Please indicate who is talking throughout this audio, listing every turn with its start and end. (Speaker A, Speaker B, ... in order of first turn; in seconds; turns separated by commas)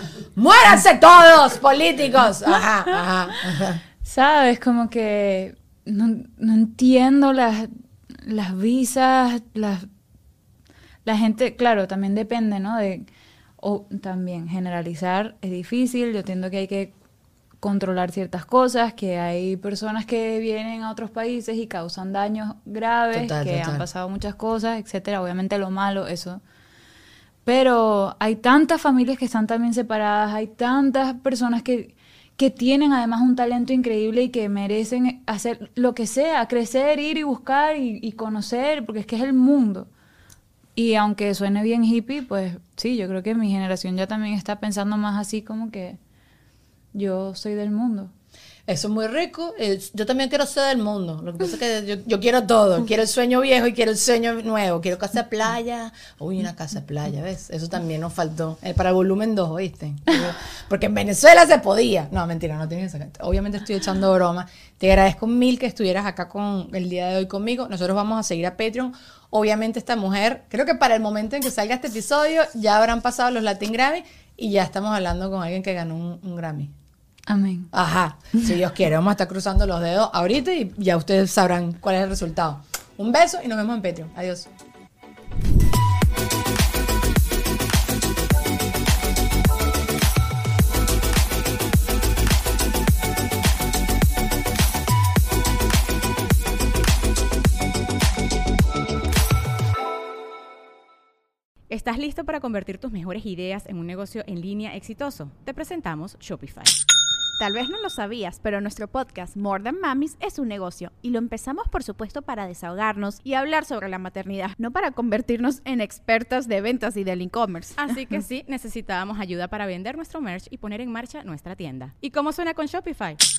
Speaker A: 0.3-3.8, Speaker B: 4.0-9.9, Speaker B: 11.0-13.1, Speaker B: 13.6-16.9, Speaker B: 17.6-26.4, Speaker A: 23.1-23.9, Speaker B: 27.4-39.9, Speaker B: 40.8-46.0, Speaker B: 46.9-48.1, Speaker A: 48.7-76.7, Speaker B: 77.3-77.7, Speaker A: 77.7-84.5, Speaker C: 101.7-106.7, Speaker D: 107.4-117.9, Speaker C: 117.8-123.2